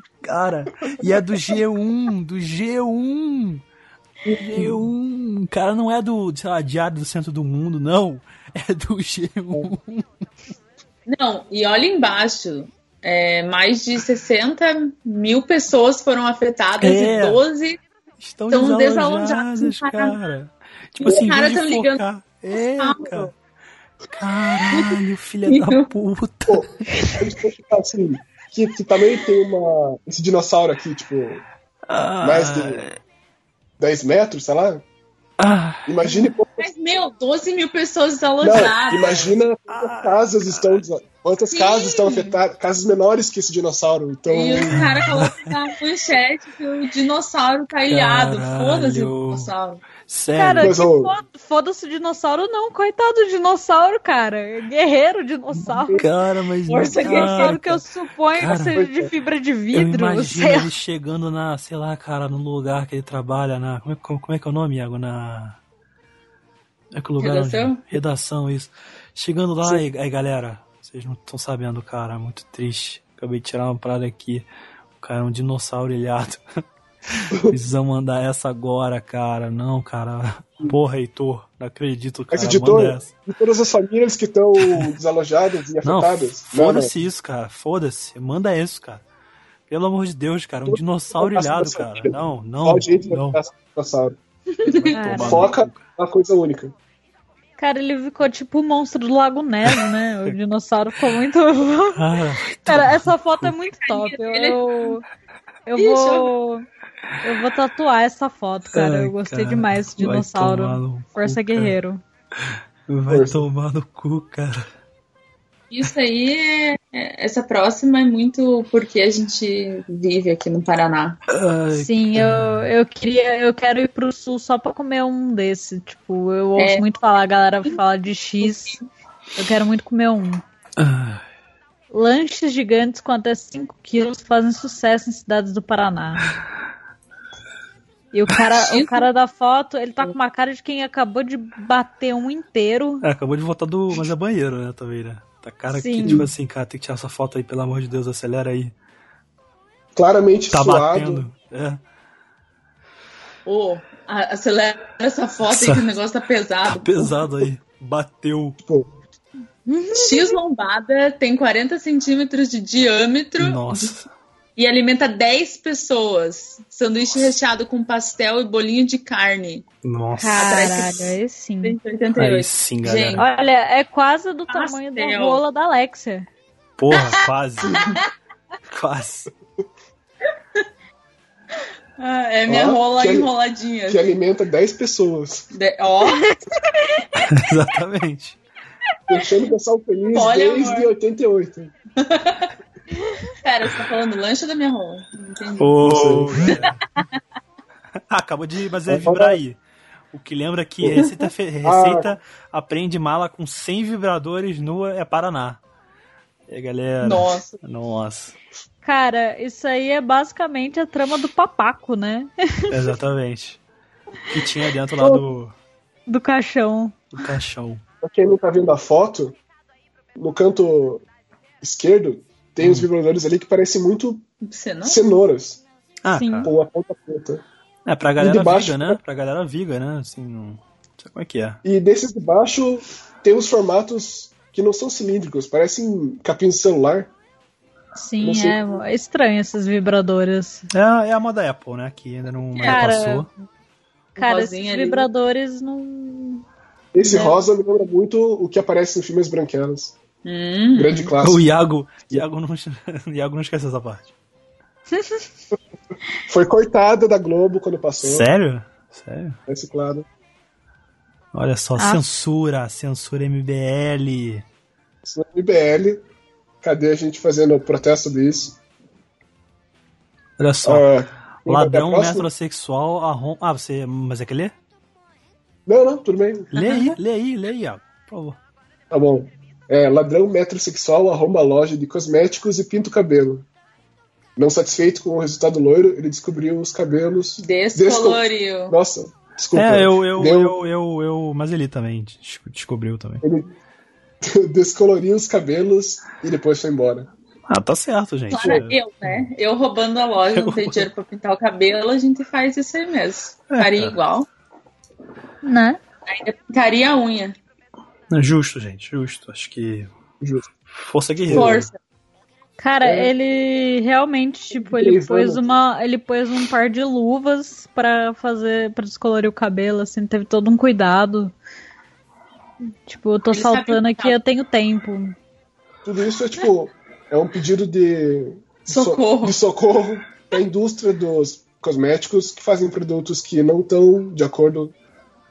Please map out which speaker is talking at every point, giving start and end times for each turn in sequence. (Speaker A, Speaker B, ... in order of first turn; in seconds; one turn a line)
Speaker A: 0.2-3.6
Speaker B: 4.3-4.9
Speaker A: 4.5-10.1
Speaker C: 11.1-17.8
Speaker A: 16.8-17.4
Speaker A: 18.2-23.3
Speaker C: 18.5-20.2
Speaker C: 21.0-23.3
Speaker A: 24.1-27.1
Speaker C: 24.7-25.9
Speaker B: 26.5-31.4
Speaker A: 31.9-33.0
Speaker B: 32.2-32.9
Speaker B: 33.8-34.8
Speaker A: 35.4-35.9
Speaker B: 35.8-36.7
Speaker C: 36.6-39.3
Speaker B: 38.4-44.8
Speaker A: 39.7-40.8
Speaker C: 41.5-42.4
Speaker C: 44.3-49.8
Speaker A: 44.7-45.5
Speaker A: 47.9-49.5
Speaker A: 50.0-50.8
Speaker D: 50.4-56.0
Speaker B: 50.6-51.1
Speaker B: 55.7-56.0
Speaker A: 55.9-57.8
Speaker C: 56.7-57.6
Speaker D: 57.0-60.7
Speaker A: 58.4-58.8
Speaker B: 58.7-59.1
Speaker A: 59.7-65.6
Speaker A: 66.9-74.5
Speaker C: 67.2-67.9
Speaker A: 75.0-76.4
Speaker A: 77.1-83.1
Speaker B: 82.3-86.9
Speaker A: 84.6-84.9
Speaker A: 85.8-89.0
Speaker A: 89.7-93.4
Speaker B: 90.7-94.2
Speaker C: 94.6-95.0
Speaker A: 94.6-95.8
Speaker D: 94.9-95.5
Speaker B: 95.1-96.7
Speaker D: 97.6-102.0
Speaker A: 101.9-103.5
Speaker D: 102.6-105.0
Speaker C: 103.8-104.9
Speaker D: 105.7-106.7
Speaker C: 105.8-106.3
Speaker D: 107.2-112.0
Speaker A: 108.7-111.7
Speaker A: 112.9-114.7
Speaker B: 113.1-113.4
Speaker C: 115.7-121.2
Speaker A: 121.3-122.7
Speaker D: 121.7-128.8
Speaker C: 126.6-126.8
Speaker C: 128.4-128.8
Speaker D: 129.4-130.4
Speaker A: 130.8-131.2
Speaker D: 131.9-136.2
Speaker D: 138.1-143.0
Speaker C: 138.6-139.0
Speaker A: 143.0-148.7
Speaker D: 145.7-146.2
Speaker B: 146.0-146.3
Speaker B: 149.9-151.2
Speaker A: 150.5-151.8
Speaker C: 153.4-157.1
Speaker A: 155.5-155.8
Speaker A: 156.7-158.6
Speaker D: 159.7-160.4
Speaker C: 159.9-163.9
Speaker A: 163.4-164.1
Speaker C: 164.6-169.6
Speaker A: 169.8-170.4
Speaker D: 170.2-171.8
Speaker C: 170.4-173.3
Speaker A: 172.2-173.3
Speaker D: 173.2-176.3
Speaker C: 174.5-175.4
Speaker A: 176.8-177.8
Speaker C: 177.7-178.0
Speaker A: 178.7-179.3
Speaker C: 182.0-184.1
Speaker B: 182.5-183.3
Speaker B: 183.9-185.5
Speaker C: 185.5-186.3
Speaker A: 187.2-188.4
Speaker B: 189.1-191.7
Speaker C: 190.1-190.9
Speaker C: 192.0-192.5
Speaker C: 193.4-197.0
Speaker A: 195.6-196.8
Speaker B: 195.8-196.6
Speaker A: 198.1-199.6
Speaker B: 198.9-199.4
Speaker A: 200.1-205.6
Speaker B: 200.8-201.1
Speaker B: 201.6-202.1
Speaker A: 206.5-208.3
Speaker C: 207.0-207.6
Speaker D: 208.8-212.7
Speaker A: 212.7-213.6
Speaker A: 214.3-215.5
Speaker D: 216.1-217.1
Speaker A: 217.1-217.8
Speaker B: 218.0-219.4
Speaker B: 220.2-221.0
Speaker B: 221.6-224.2
Speaker A: 222.6-222.9
Speaker C: 224.4-225.0
Speaker B: 224.8-225.6
Speaker A: 226.0-226.5
Speaker D: 226.1-226.5
Speaker B: 226.4-227.4
Speaker A: 227.8-231.6
Speaker B: 228.2-229.0
Speaker B: 231.6-237.1
Speaker D: 237.9-240.7
Speaker B: 238.2-238.8
Speaker A: 240.7-243.3
Speaker C: 242.6-242.9
Speaker D: 242.6-243.3
Speaker C: 244.2-245.1
Speaker D: 244.2-246.4
Speaker B: 246.9-250.0
Speaker C: 250.2-251.1
Speaker B: 250.7-251.4
Speaker A: 251.2-254.1
Speaker D: 254.9-255.2
Speaker B: 256.3-258.3
Speaker A: 258.0-259.4
Speaker B: 259.5-260.0
Speaker A: 261.3-264.4
Speaker D: 261.8-262.0
Speaker B: 265.0-266.0
Speaker B: 266.6-268.6
Speaker A: 270.4-270.9
Speaker B: 270.6-272.3
Speaker A: 271.4-274.5
Speaker B: 275.6-276.5
Speaker A: 276.5-278.4
Speaker D: 276.6-276.9
Speaker B: 278.9-283.4
Speaker B: 284.4-290.6
Speaker C: 287.4-288.7
Speaker A: 289.5-293.2
Speaker B: 293.2-293.5
Speaker B: 294.2-297.1
Speaker A: 297.5-299.3
Speaker C: 298.3-304.3
Speaker B: 298.4-298.6
Speaker A: 300.4-300.9
Speaker A: 303.5-303.9
Speaker D: 305.4-305.8
Speaker C: 306.1-307.4
Speaker A: 308.1-309.9
Speaker B: 310.2-310.5
Speaker A: 310.7-311.7
Speaker B: 311.2-311.6
Speaker C: 311.3-311.7
Speaker D: 312.6-321.3
Speaker B: 312.8-313.1
Speaker B: 314.5-315.4
Speaker D: 322.9-325.1
Speaker C: 323.3-324.1
Speaker B: 325.8-334.7
Speaker C: 328.7-329.4